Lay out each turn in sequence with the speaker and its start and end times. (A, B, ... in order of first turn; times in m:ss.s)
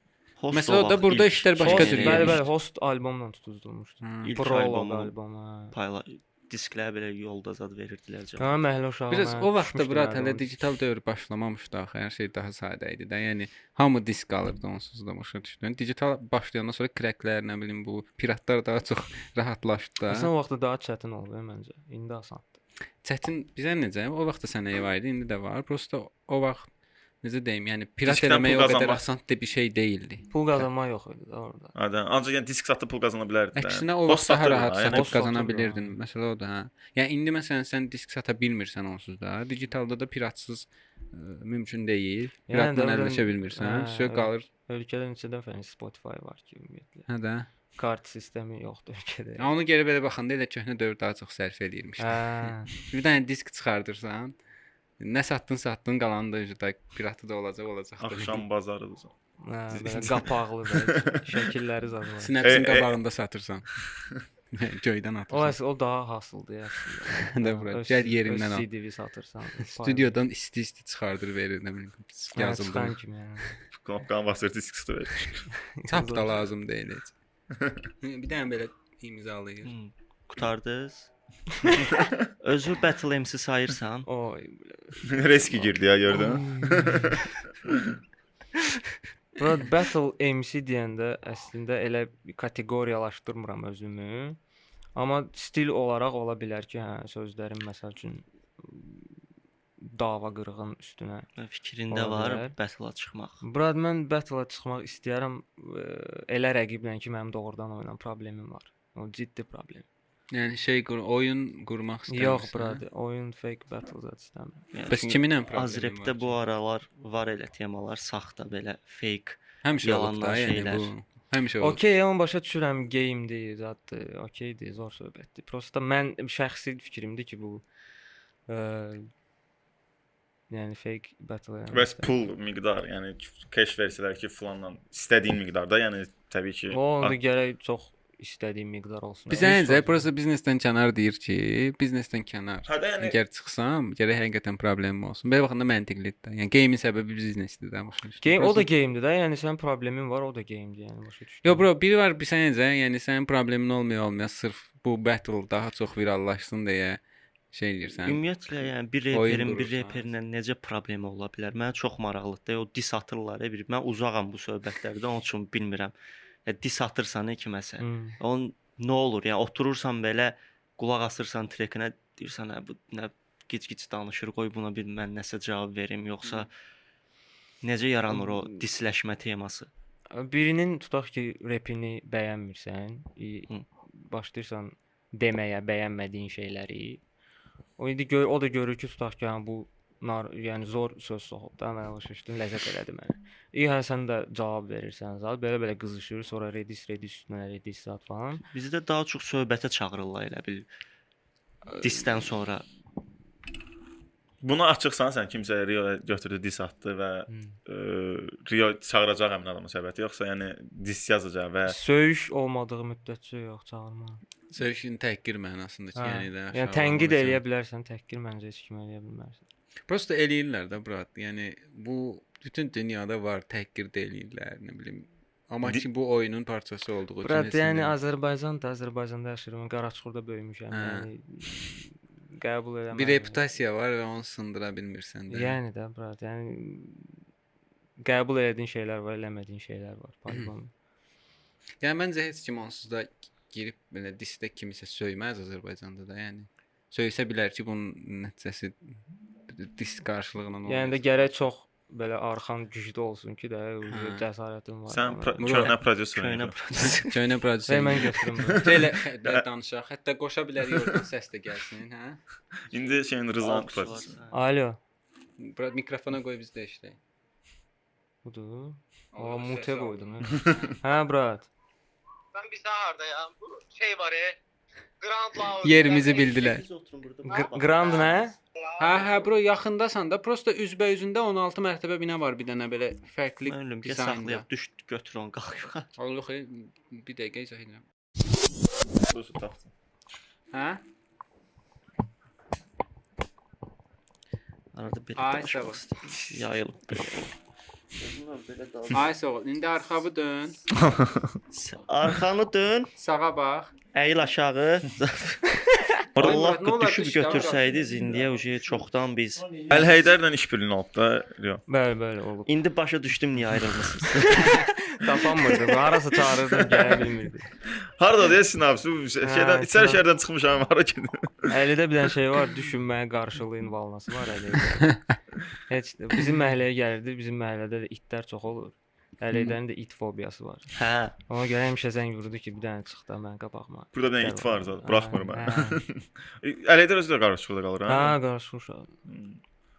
0:00.4-0:02.4 A
0:00.5-0:02.4 B
0:01.6-0:05.8 C
0:04.0-0:04.3 B
0:04.2-0:05.1 A
0:05.7-0:08.6 A
0:08.4-0:10.5 C
0:09.1-0:20.3 B
0:20.1-0:22.6 C
0:23.0-0:26.7 B
0:27.2-0:30.6 B
0:28.0-0:29.0 D
0:30.3-0:31.7 C
0:31.8-0:35.2 D
0:33.6-0:44.5 B
0:34.9-0:36.0 C
0:42.5-0:47.1 C
0:47.1-0:47.5 B
0:47.8-0:49.5 C
0:49.4-0:54.4 B
0:52.0-0:52.7 C
0:55.0-0:58.5 B
0:58.0-0:59.1 D
0:59.4-1:02.4 C
0:59.7-1:01.3 D
1:02.2-1:03.7 B
1:02.4-1:03.0 D
1:04.5-1:05.6 B
1:05.3-1:10.2 C
1:07.1-1:08.7 B
1:09.6-1:13.0 B
1:12.4-1:13.6 C
1:13.7-1:15.5 D
1:15.8-1:16.5 C
1:15.9-1:17.2 B
1:18.0-1:19.7 B
1:19.6-1:21.1 A
1:22.4-1:24.1 A
1:24.1-1:25.1 C
1:25.0-1:27.8 D
1:26.1-1:27.2 C
1:29.4-1:34.4 C
1:35.0-1:39.1 C
1:39.8-1:41.3 C
1:41.4-1:43.4 A
1:41.9-1:42.5 C
1:43.4-1:49.9 C
1:50.3-1:52.8 B
1:52.1-1:54.6 C
1:54.7-2:00.9 A
1:54.9-1:56.4 B
1:59.6-2:01.8 B
2:01.6-2:07.6 C
2:08.5-2:09.1 C
2:10.5-2:12.1 C
2:11.7-2:17.2 D
2:16.7-2:20.1 C
2:19.3-2:28.7 B
2:22.7-2:23.2 D
2:28.2-2:31.7 C
2:31.4-2:37.0 B
2:37.5-2:38.2 B
2:38.0-2:45.9 A
2:39.1-2:40.1 B
2:46.5-2:56.5 A
2:47.8-2:48.2 C
2:57.6-2:59.7 A
2:58.1-2:58.6 C
3:00.1-3:07.0 C
3:07.8-3:18.4 C
3:18.5-3:20.7 A
3:21.8-3:22.6 A
3:24.4-3:31.8 D
3:27.3-3:27.6 C
3:31.7-3:34.2 C
3:34.5-3:37.4 B
3:36.0-3:39.4 C
3:39.9-3:48.0 B
3:47.2-3:53.4 C
3:50.7-3:51.1 B
3:52.9-3:55.6 B
3:55.3-3:57.2 C
3:58.0-4:00.7 C
4:01.8-4:11.0 B
4:10.7-4:15.7 C
4:13.9-4:14.2 B
4:14.9-4:16.6 D
4:15.4-4:15.8 B
4:16.1-4:17.2 A
4:17.0-4:22.2 B
4:17.7-4:18.7 C
4:18.4-4:19.4 D
4:22.7-4:24.2 D
4:23.4-4:24.4 A
4:24.3-4:24.8 C
4:25.4-4:27.0 B
4:28.2-4:31.5 C
4:29.1-4:30.7 B
4:32.3-4:34.4 E
4:35.0-4:36.4 E
4:35.6-4:36.6 B
4:35.9-4:38.2 A
4:37.3-4:38.4 C
4:38.6-4:39.2 E
4:38.8-4:44.5 B
4:43.5-4:45.9 A
4:46.0-4:47.8 B
4:49.0-4:49.7 D
4:50.5-4:50.8 B
4:54.7-4:57.3 A
4:55.2-4:55.8 B
4:58.0-4:59.1 A
4:58.9-5:00.6 B
5:00.8-5:01.4 D
5:01.5-5:02.9 A
5:03.0-5:03.7 B
5:03.9-5:05.5 A
5:06.2-5:09.7 A
5:06.2-5:06.4 D
5:06.2-5:07.8 B
5:09.7-5:11.6 D
5:11.7-5:12.5 C
5:12.5-5:14.6 A
5:14.3-5:17.5 C
5:16.5-5:17.0 D
5:18.0-5:21.6 D
5:19.2-5:20.0 C
5:21.5-5:25.0 C
5:25.7-5:30.8 C
5:30.7-5:31.2 A
5:31.3-5:35.8 C
5:33.9-5:38.2 D
5:37.9-5:38.9 C
5:39.1-5:39.4 D